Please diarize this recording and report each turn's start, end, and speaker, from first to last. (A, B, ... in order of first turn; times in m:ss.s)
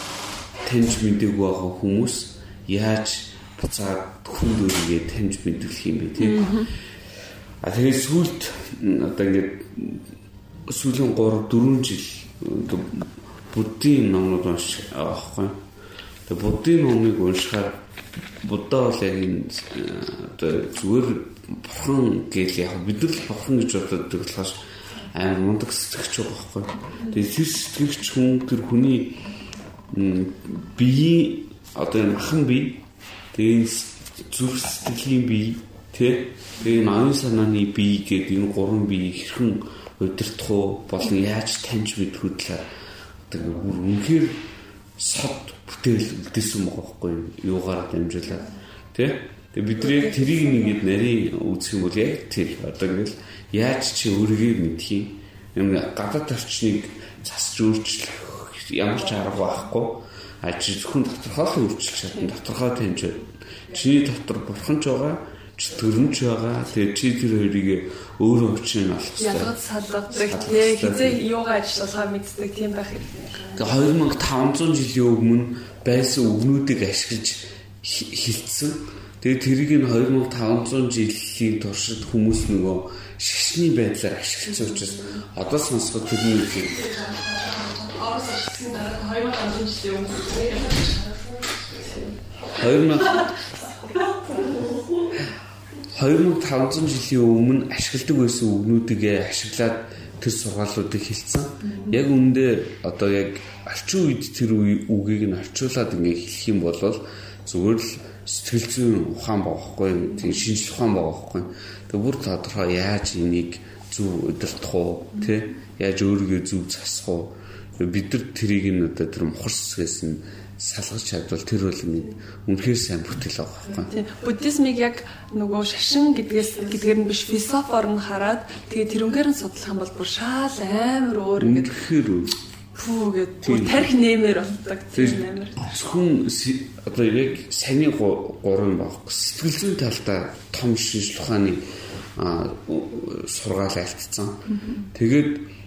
0:00.6-0:06.6 A
0:06.2-0:06.7 B
0:07.6-0:10.0 A
0:10.7-0:15.6 A
0:16.3-0:17.8 A
0:18.4-0:24.6 A
0:25.1-0:29.2 A
0:29.9-0:32.8 A
0:33.3-0:42.6 A
0:43.3-0:44.4 A
0:45.0-1:09.5 A
0:49.9-0:50.1 B
1:09.2-1:13.5 B
1:10.2-1:11.2 A
1:13.5-1:26.8 A
1:26.8-1:32.2 B
1:32.5-1:33.4 A
1:33.1-1:34.9 B
1:35.9-2:03.9 A
2:03.9-2:11.7 B
2:11.4-2:12.4 A
2:12.7-2:15.7 B
2:13.4-2:13.9 A
2:14.9-2:21.6 A
2:22.2-2:25.5 A